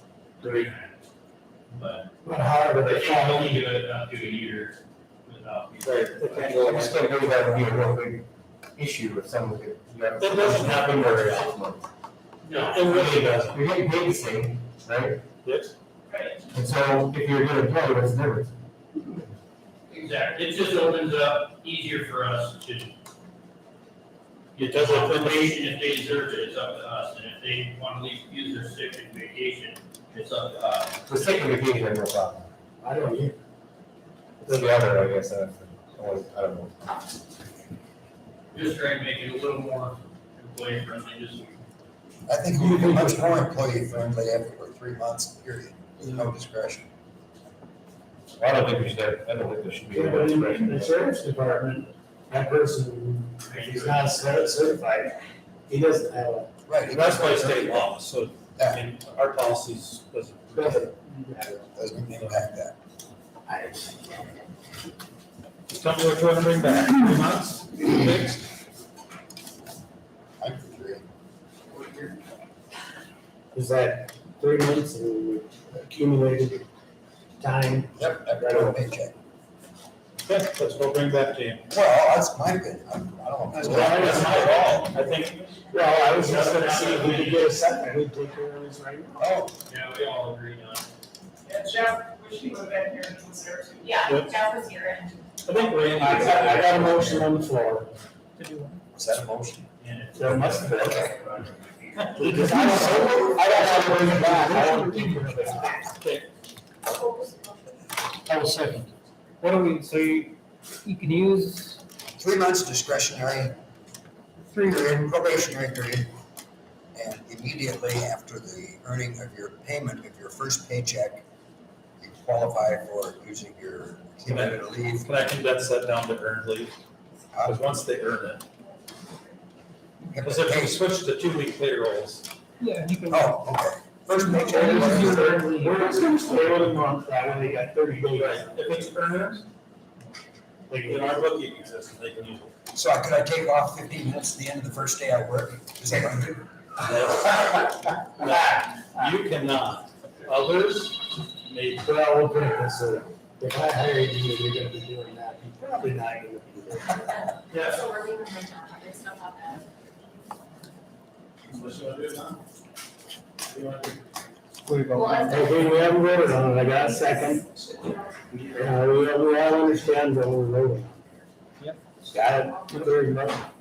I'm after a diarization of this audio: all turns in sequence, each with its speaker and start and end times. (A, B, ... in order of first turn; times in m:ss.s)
0:00.4-0:00.9 A
0:00.4-0:00.7 B
0:01.7-0:02.1 A
0:02.2-0:03.7 B
0:02.8-0:06.7 A
0:05.8-0:07.2 C
0:06.5-0:08.2 D
0:08.8-0:11.8 D
0:10.2-0:11.5 C
0:12.4-0:13.2 A
0:12.6-0:13.6 C
0:12.9-0:15.2 D
0:15.4-0:15.7 C
0:16.1-0:16.4 A
0:16.5-0:18.5 D
0:19.9-0:22.9 A
0:24.6-0:31.5 A
0:24.6-0:25.6 C
0:31.1-0:32.5 D
0:32.8-0:33.4 B
0:34.4-0:36.8 D
0:34.5-0:34.8 C
0:38.5-0:41.6 A
0:42.3-0:46.9 E
0:42.6-0:43.3 B
0:48.4-0:50.9 D
0:49.9-0:56.5 B
0:53.4-0:54.4 A
0:56.7-0:57.8 E
0:56.8-1:01.0 C
0:58.6-0:58.8 E
1:00.5-1:01.7 B
1:01.8-1:02.8 E
1:02.1-1:02.4 C
1:03.5-1:04.3 B
1:05.7-1:08.4 C
1:10.4-1:11.0 E
1:13.5-1:16.7 B
1:17.4-1:18.8 B
1:18.0-1:19.1 E
1:20.3-1:21.7 C
1:21.7-1:24.8 E
1:23.5-1:24.8 B
1:23.6-1:27.2 C
1:25.7-1:29.4 B
1:25.9-1:27.5 A
1:29.2-1:29.5 E
1:29.7-1:30.8 A
1:31.5-1:34.0 F
1:33.8-1:35.6 G
1:34.0-1:34.4 C
1:35.4-1:37.3 C
1:35.8-1:37.9 B
1:38.4-1:38.8 C
1:39.0-1:39.7 E
1:39.8-1:42.8 A
1:40.2-1:41.1 B
1:40.8-1:41.1 E
1:42.0-1:43.0 C
1:42.2-1:45.9 B
1:42.5-1:45.7 H
1:46.0-1:46.3 C
1:46.9-1:47.8 F
1:48.3-1:48.9 H
1:49.4-1:51.8 H
1:52.2-1:53.6 E
1:54.6-1:56.1 E
1:57.0-2:01.2 E
2:02.0-2:05.1 E
2:04.3-2:06.7 C
2:07.3-2:07.6 E
2:07.4-2:08.4 C
2:10.0-2:10.8 E
2:10.2-2:12.3 C
2:12.6-2:13.3 H
2:13.1-2:15.2 E
2:14.1-2:16.6 H
2:14.1-2:18.8 B
2:18.1-2:19.5 C
2:20.7-2:21.2 B
2:20.7-2:22.5 C
2:22.8-2:26.4 E
2:26.8-2:31.9 C
2:28.1-2:29.1 B
2:31.8-2:37.2 B
2:37.2-2:39.7 G
2:37.5-2:37.8 C
2:41.5-2:42.3 C
2:44.7-2:45.3 H
2:44.9-2:47.4 G
2:45.3-2:47.5 B
2:47.0-2:48.6 F
2:48.5-2:51.1 B
2:52.0-2:53.5 B